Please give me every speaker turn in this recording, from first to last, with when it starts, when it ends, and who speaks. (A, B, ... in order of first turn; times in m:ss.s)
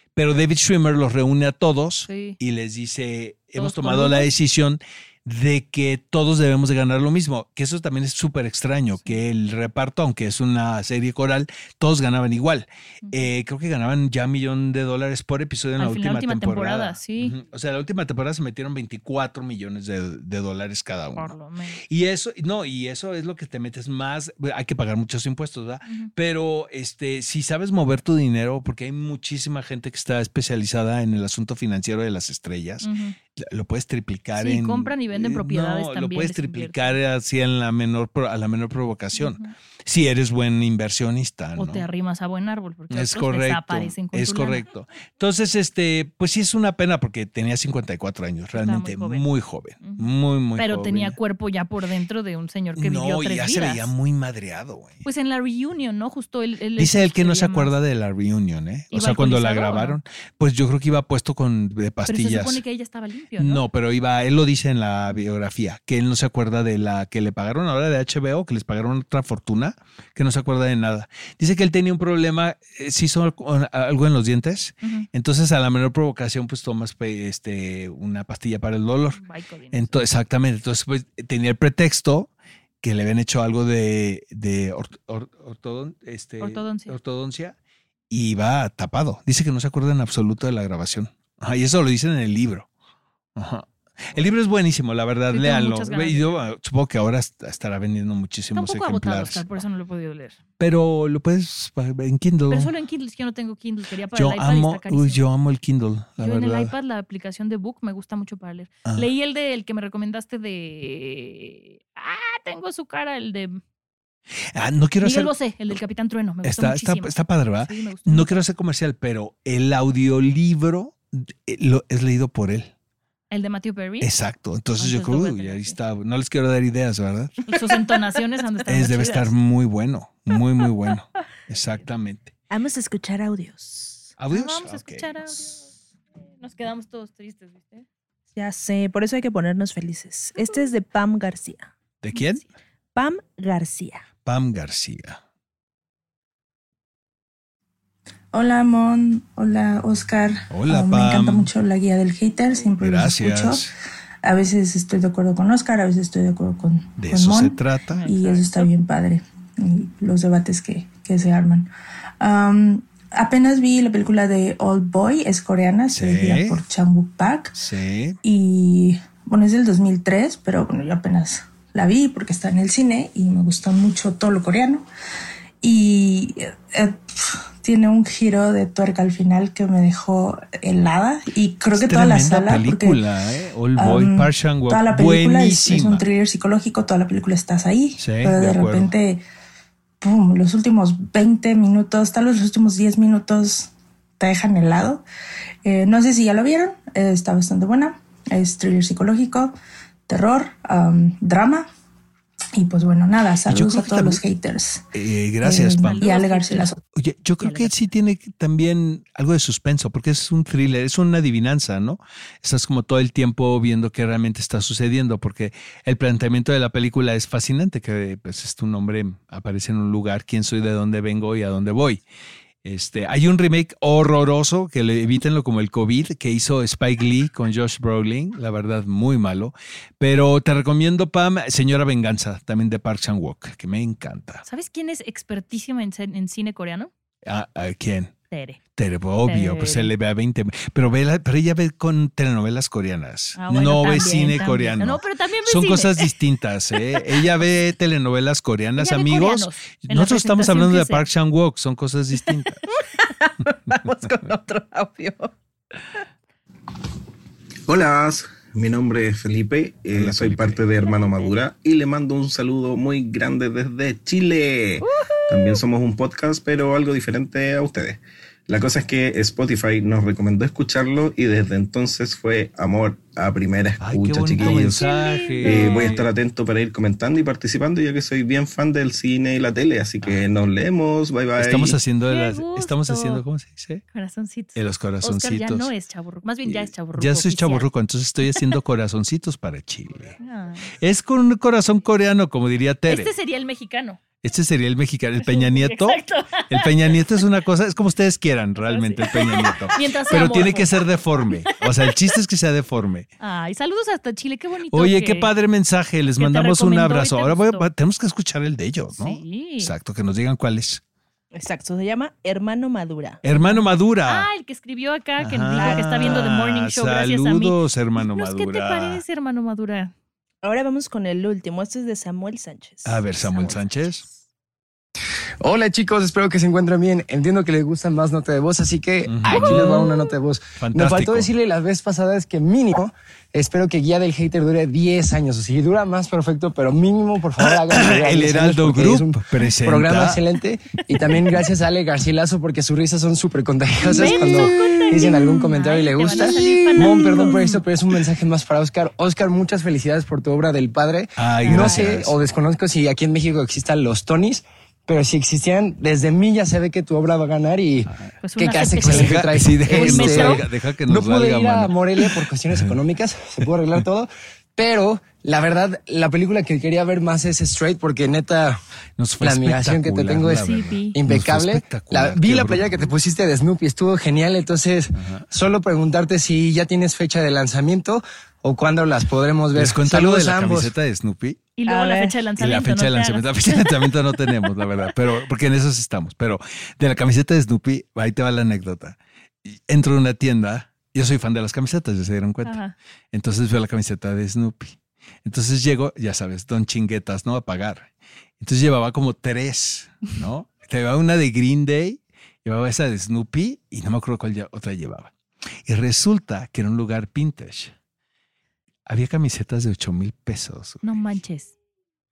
0:00.2-0:21.3 A
0:02.1-0:02.4 B
0:03.6-0:04.3 B
0:08.9-0:09.2 B
0:15.8-0:17.4 B
0:21.2-0:21.8 B
0:21.9-0:41.8 A
0:25.8-0:26.1 B
0:32.8-0:33.1 B
0:34.4-0:37.0 B
0:39.1-0:39.5 B
0:41.6-0:44.6 B
0:42.9-0:51.2 A
0:48.5-0:49.2 B
0:49.8-0:50.1 B
0:50.6-0:53.9 B
0:52.8-0:55.0 A
0:55.0-0:57.7 B
0:56.8-1:02.6 A
0:58.9-1:00.0 B
1:02.1-1:03.6 B
1:03.4-1:19.2 A
1:19.1-1:20.0 B
1:19.7-1:27.5 A
1:26.4-1:27.0 B
1:28.1-1:32.7 A
1:33.4-1:39.4 A
1:35.3-1:36.4 B
1:38.5-1:40.4 B
1:40.6-1:42.7 A
1:42.5-1:45.2 B
1:44.1-1:46.7 A
1:46.2-1:53.6 B
1:54.5-1:55.3 A
1:55.0-1:58.3 B
1:56.4-2:02.7 A
2:03.3-2:04.1 B
2:04.0-2:07.4 A
2:04.8-2:05.8 B
2:07.5-2:09.3 B
2:08.7-2:12.3 A
2:11.5-2:11.8 B
2:12.5-2:14.1 C
2:14.2-2:15.5 A
2:14.3-2:15.7 B
2:16.4-2:17.8 B
2:18.3-2:21.7 C
2:22.0-2:22.4 A
2:22.1-2:22.4 B
2:22.9-2:24.0 C
2:24.2-2:25.2 A
2:28.3-2:33.7 D
2:30.5-2:31.5 A
2:32.8-2:33.7 A
2:34.2-2:47.6 D
2:37.0-2:38.0 A
2:37.9-2:38.7 B
2:45.9-2:46.6 A
2:47.5-2:48.2 A
2:48.2-2:54.8 D
2:55.6-3:03.0 D
3:01.8-3:06.0 A
3:03.8-3:09.2 D
3:08.0-3:08.9 A
3:10.0-3:15.0 D
3:15.6-3:19.5 D
3:20.1-3:21.7 D
3:22.6-3:24.8 D
3:23.5-3:24.2 A
3:24.9-3:26.1 A
3:25.4-3:26.8 D
3:25.8-3:26.7 B
3:26.9-3:42.0 A
3:27.4-3:27.7 B
3:42.6-3:54.4 A
3:54.4-3:56.9 B
3:57.2-3:58.1 A
3:58.3-3:58.6 B
3:58.8-4:12.6 A
3:59.3-3:59.9 B
4:03.4-4:06.1 B
4:08.8-4:11.0 B
4:12.7-4:15.3 C
4:17.7-4:34.8 E
4:19.9-4:20.6 A
4:24.8-4:25.4 B
4:33.8-4:36.1 A
4:34.4-4:35.9 B
4:35.4-4:41.8 E
4:41.4-4:43.8 A
4:42.1-4:43.2 B
4:43.9-4:47.7 B
4:44.5-4:45.7 A
4:46.4-4:50.2 A
4:48.2-4:48.6 B
4:50.2-4:50.7 B
4:50.8-4:53.1 A
4:52.9-4:54.0 B
4:54.2-5:03.1 A
4:55.2-4:56.7 B
4:58.6-5:00.8 B
5:01.5-5:01.9 B
5:03.2-5:05.3 B
5:04.7-5:10.8 A
5:06.2-5:07.7 B
5:08.9-5:09.7 B
5:11.3-5:13.2 C
5:13.2-5:14.3 A
5:13.3-5:19.9 B
5:15.2-5:19.0 A
5:15.5-5:16.1 C
5:20.4-5:23.6 C
5:22.8-5:24.0 A
5:23.3-5:23.6 B
5:25.4-6:08.6 F
5:29.0-5:29.9 A
5:30.6-5:31.3 A
5:37.4-5:40.2 A
5:43.9-5:44.5 A
5:43.9-5:47.4 B
5:46.1-5:47.6 A
5:51.2-5:52.1 A
5:51.4-5:51.9 B
5:58.2-6:00.4 B
5:58.8-6:02.8 A
6:03.4-6:03.8 A
6:09.0-6:12.9 A
6:09.2-6:20.7 F
6:10.4-6:11.0 B
6:14.9-6:15.3 A
6:19.5-6:21.5 A
6:21.6-6:23.8 B
6:21.7-6:22.1 C
6:22.4-6:32.6 A
6:32.4-6:32.7 B
6:33.1-6:45.1 A
6:45.6-6:47.7 A
6:48.9-6:50.8 A
6:50.8-6:51.5 B